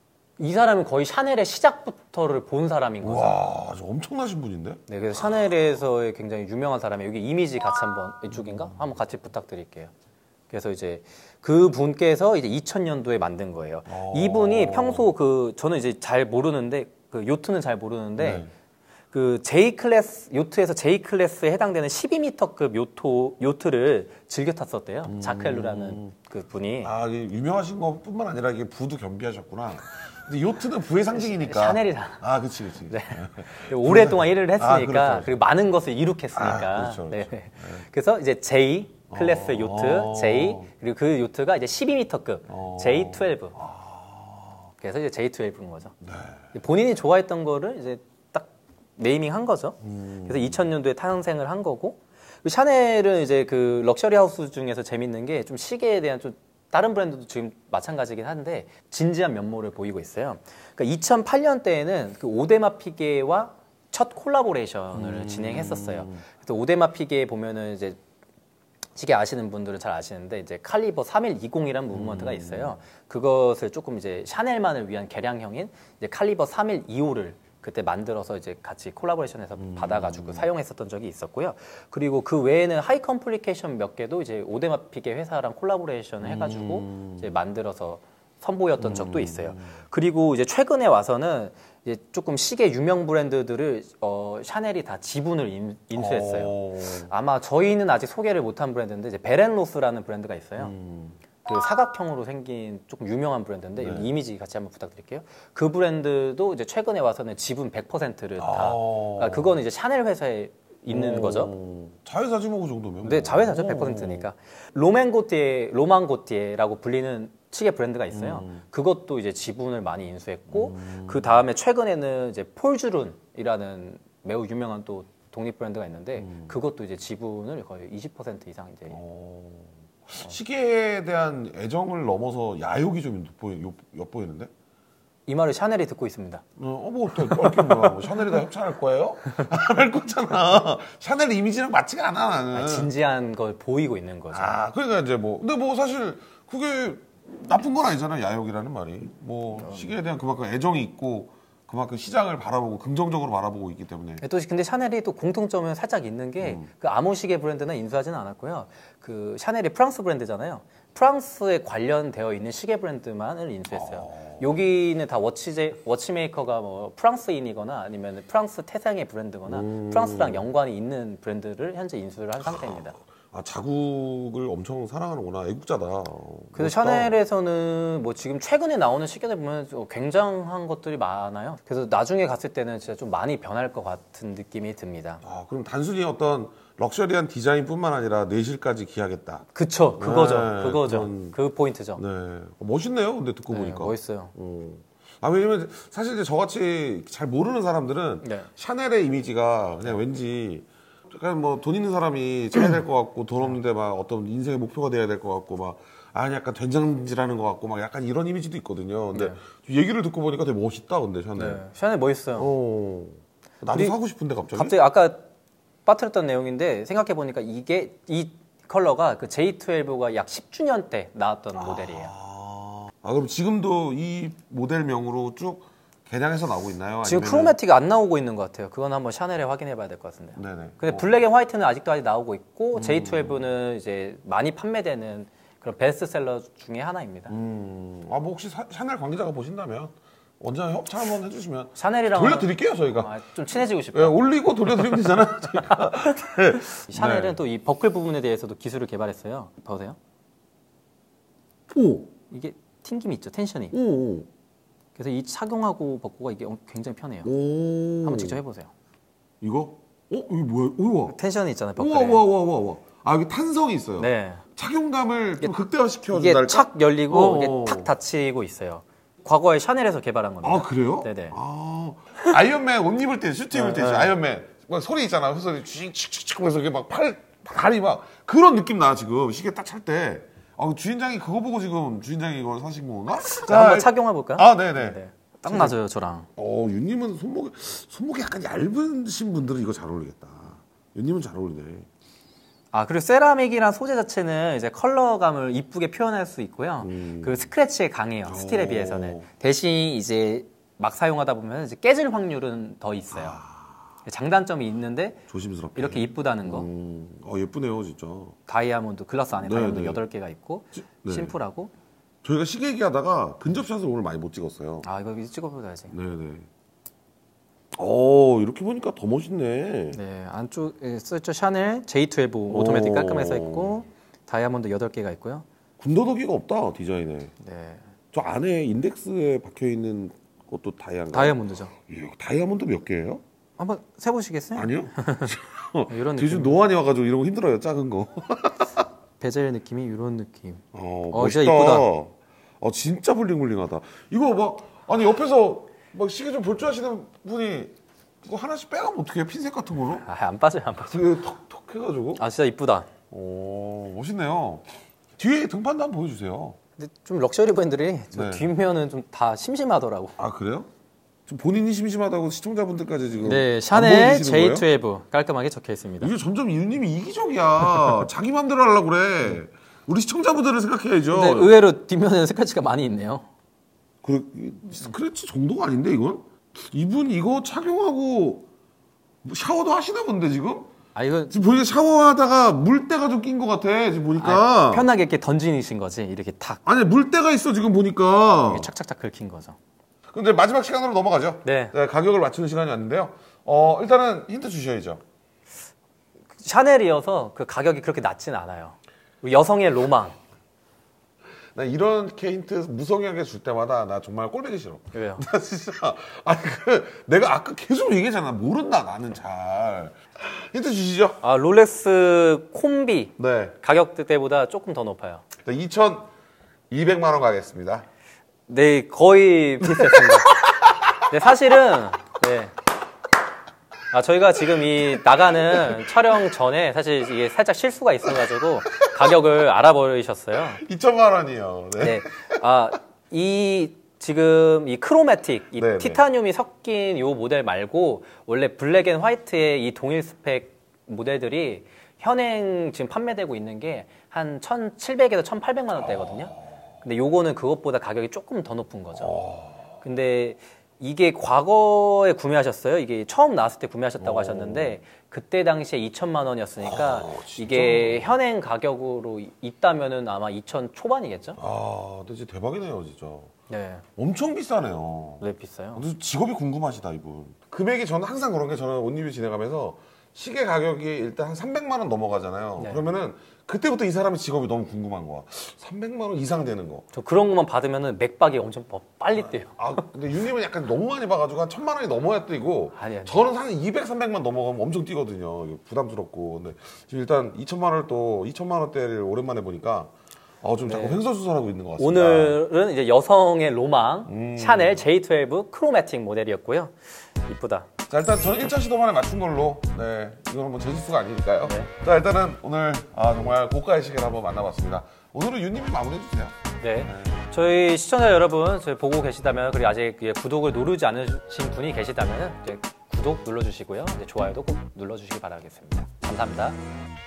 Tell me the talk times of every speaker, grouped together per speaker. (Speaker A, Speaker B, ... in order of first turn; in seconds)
Speaker A: 0.4-3.4, 4.9-9.9, 10.5-18.5, 19.1-26.9, 31.1-32.2, 32.9-43.6, 44.8-45.9, 46.5-68.0, 68.9-100.7, 101.4-111.5, 113.0-129.0, 135.3-136.4, 137.2-138.4, 142.5-144.6, 149.6-149.9, 154.2-172.9, 176.5-185.2, 189.6-192.0, 193.5-194.3, 198.2-198.5, 209.1-209.4, 211.3-212.5, 213.7-213.9, 214.5-215.3, 215.8-222.1, 227.0-237.3, 241.8-250.0, 252.3-253.8, 254.9-257.3, 258.0-258.7, 261.1-262.2, 264.0-264.4, 266.1-271.4, 273.5-274.2, 283.2-286.3, 292.7-303.4, 304.1-305.2, 305.7-306.7, 308.5-311.7, 314.8-315.9, 319.9-325.4, 327.4-327.8, 331.1-331.7, 333.6-335.4, 335.9-336.6, 339.2-341.9, 350.0-351.1, 352.1-352.9, 356.8-360.2, 363.2-366.1, 367.8-368.0, 371.1-373.3, 380.9-381.4, 384.2-386.6, 388.5-389.6, 391.4-391.7, 396.4-400.2, 404.9-405.2, 411.2-415.2, 418.5-420.4, 421.1-422.6, 423.9-430.6, 431.8-449.2, 449.8-461.4, 463.5-463.8, 465.2-465.8, 472.6-472.8, 476.9-479.8, 482.8-483.3, 490.6-491.0, 491.8-497.7, 501.4-501.7, 506.6-516.6
Speaker B: 3.0-5.5, 8.3-8.8, 13.9-15.1, 18.2-18.5, 25.0-26.1, 26.8-35.3, 36.3-37.8, 39.1-40.7, 42.5-44.6, 46.0-46.5, 49.8-50.7, 64.9-66.2, 71.9-72.8, 79.6-80.5, 86.2-87.3, 88.8-89.7, 95.9-97.1, 100.6-101.2, 103.8-104.1, 108.4-109.6, 110.9-114.3, 118.1-118.6, 120.5-121.4, 126.2-126.5, 128.9-134.5, 136.6-142.9, 144.3-154.2, 156.4-156.7, 163.7-164.5, 169.4-170.4, 172.4-177.2, 185.2-189.4, 190.0-191.4, 191.9-211.6, 212.4-214.7, 221.6-227.6, 230.3-231.1, 232.7-233.4, 237.3-243.1, 243.8-247.4, 251.7-252.1, 253.7-254.3, 257.2-258.4, 259.4-261.2, 261.8-267.9, 270.4-285.8, 286.4-291.9, 296.8-297.5, 298.2-299.2, 303.1-303.7, 305.3-308.3, 309.4-310.0, 310.7-311.3, 312.2-314.9, 315.9-316.5, 317.7-320.0, 322.5-323.8, 325.8-327.3, 328.1-333.2, 334.5-338.9, 340.7-350.1, 350.9-352.2, 353.1-354.6, 355.2-356.6, 358.1-358.5, 360.2-360.7, 361.3-364.7, 366.0-371.6, 374.0-378.5, 379.2-380.7, 381.3-384.9, 386.7-388.7, 390.1-395.0, 401.5-411.2, 413.2-413.6, 415.4-416.1, 416.7-417.8, 425.3-425.9, 430.4-432.4, 435.6-436.0, 445.9-446.2, 448.9-449.7, 454.0-454.8, 456.6-458.2, 461.4-463.3, 464.0-465.2, 465.7-476.8, 479.2-492.4, 494.1-494.8, 497.9-507.2